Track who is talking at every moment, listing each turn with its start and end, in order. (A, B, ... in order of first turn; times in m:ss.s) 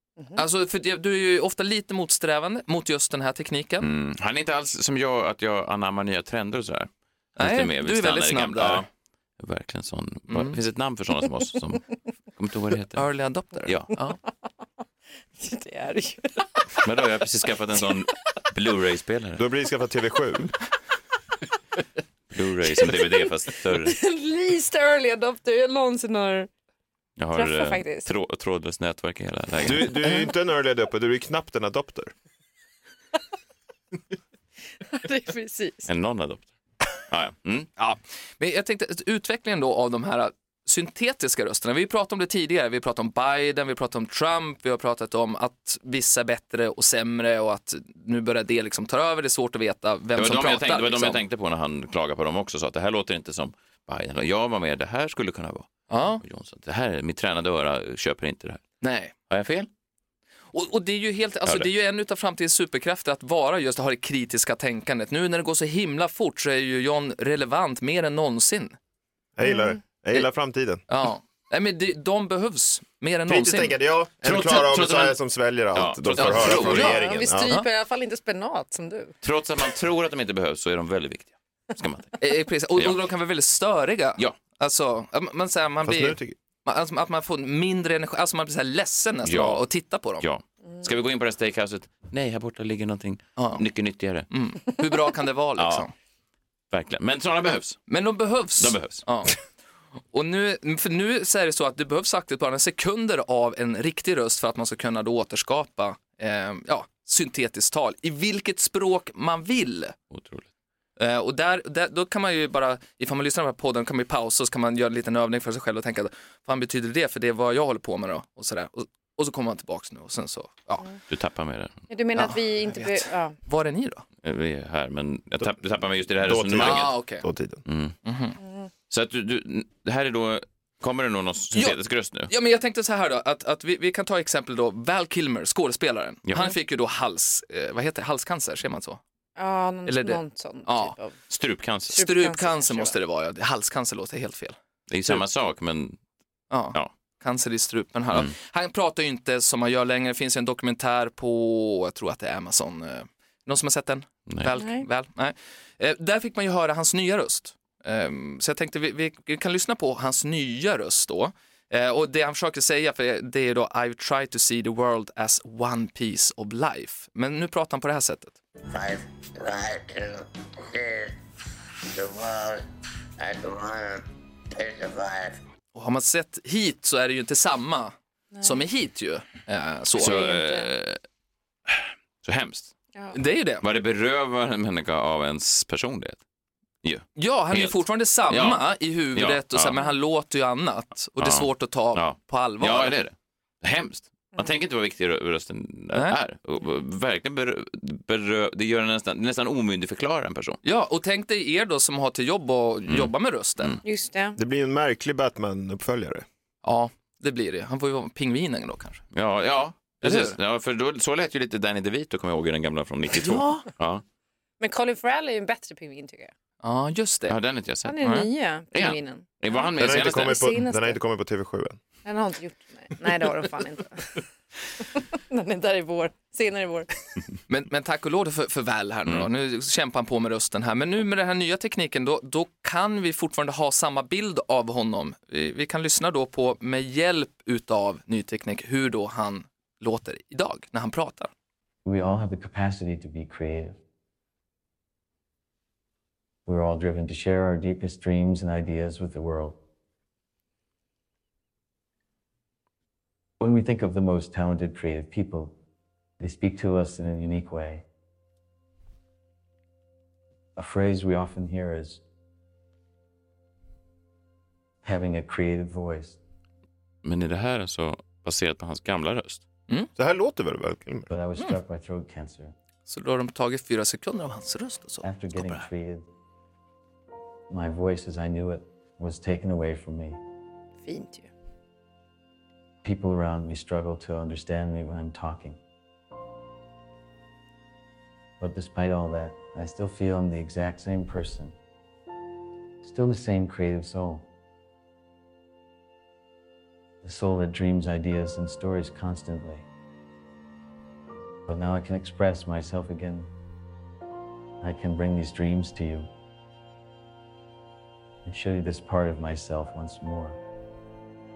0:00.4-0:03.9 A
0:03.8-0:08.9 B
0:07.4-0:08.8 A
0:09.4-0:11.8 B
0:10.3-0:10.6 A
0:12.4-0:13.1 B
0:12.9-0:14.2 A
0:13.6-0:13.9 B
0:15.4-0:16.9 C
0:16.8-0:19.4 B
0:19.4-0:20.5 D
0:22.3-0:24.0 B
0:22.8-0:23.1 C
0:23.7-0:26.5 C
0:27.2-0:29.9 B
0:27.3-0:28.1 C
0:29.6-0:32.1 D
0:34.9-0:35.9 C
0:35.9-0:37.7 B
0:37.8-0:51.2 A
0:50.2-0:58.6 B
0:55.9-0:56.2 A
0:58.8-0:59.1 A
0:59.3-0:59.7 B
1:00.5-1:08.8 A
1:09.4-1:10.8 D
1:09.4-1:09.7 C
1:10.9-1:13.8 A
1:13.3-1:17.5 D
1:14.2-1:15.2 B
1:15.7-1:16.9 B
1:16.2-1:17.7 A
1:16.5-1:19.1 C
1:19.2-1:22.2 B
1:22.2-1:30.2 A
1:25.8-1:26.3 D
1:29.2-1:29.6 B
1:30.2-1:34.3 B
1:33.4-1:33.6 A
1:34.3-1:35.9 A
1:35.6-1:35.8 B
1:36.7-1:37.8 B
1:37.9-1:39.4 A
1:38.6-1:39.0 B
1:40.1-1:49.9 A
1:50.1-1:50.5 B
1:51.0-2:00.9 A
2:01.1-2:01.7 B
2:01.9-2:03.3 C
2:02.2-2:04.0 A
2:04.2-2:06.9 B
2:06.2-2:07.6 D
2:06.6-2:07.2 A
2:07.6-2:08.0 B
2:08.0-2:08.4 A
2:08.9-2:12.3 B
2:11.5-2:19.0 A
2:16.3-2:16.5 B
2:19.4-2:21.2 C
2:19.8-2:20.9 A
2:21.3-2:22.0 B
2:21.9-2:22.9 C
2:21.9-2:25.2 A
2:24.9-2:26.0 B
2:26.5-2:48.4 A
2:34.3-2:34.5 B
2:34.5-2:34.8 C
2:48.7-2:51.1 E
2:51.9-2:52.6 E
2:53.2-2:55.4 E
2:55.7-3:00.2 A
3:00.0-3:00.7 C
3:00.0-3:01.0 B
3:01.7-3:02.7 B
3:03.1-3:03.6 A
3:03.6-3:06.2 B
3:06.8-3:08.6 B
3:07.2-3:13.0 A
3:09.1-3:09.8 B
3:11.2-3:20.6 B
3:20.6-3:23.8 A
3:22.9-3:23.8 B
3:23.8-3:24.4 C
3:24.4-3:26.2 D
3:26.6-3:29.0 A
3:29.1-3:34.0 B
3:30.0-3:30.4 A
3:33.2-3:33.6 A
3:34.6-3:36.3 C
3:36.6-3:37.4 A
3:37.3-3:38.1 B
3:37.8-3:41.0 C
3:38.0-3:38.3 A
3:38.7-3:40.4 B
3:39.8-3:41.8 D
3:42.0-3:44.2 C
3:44.8-3:46.9 C
3:47.5-4:01.3 A
4:01.8-4:03.8 F
4:06.4-4:09.6 F
4:13.4-4:15.5 F
4:16.2-4:17.8 F
4:20.6-4:22.0 F
4:24.8-4:26.2 F
4:27.0-4:29.4 B
4:30.0-4:31.1 D
4:31.1-4:32.5 F
4:32.9-4:35.6 A
4:35.0-4:36.0 F
4:37.5-4:40.2 F
4:40.8-4:41.3 C
4:42.8-4:45.6 F
4:48.4-4:51.5 F
4:52.8-4:54.2 F
4:57.0-4:59.6 F
5:01.5-5:03.3 F
5:04.6-5:06.1 F
5:08.2-5:10.4 F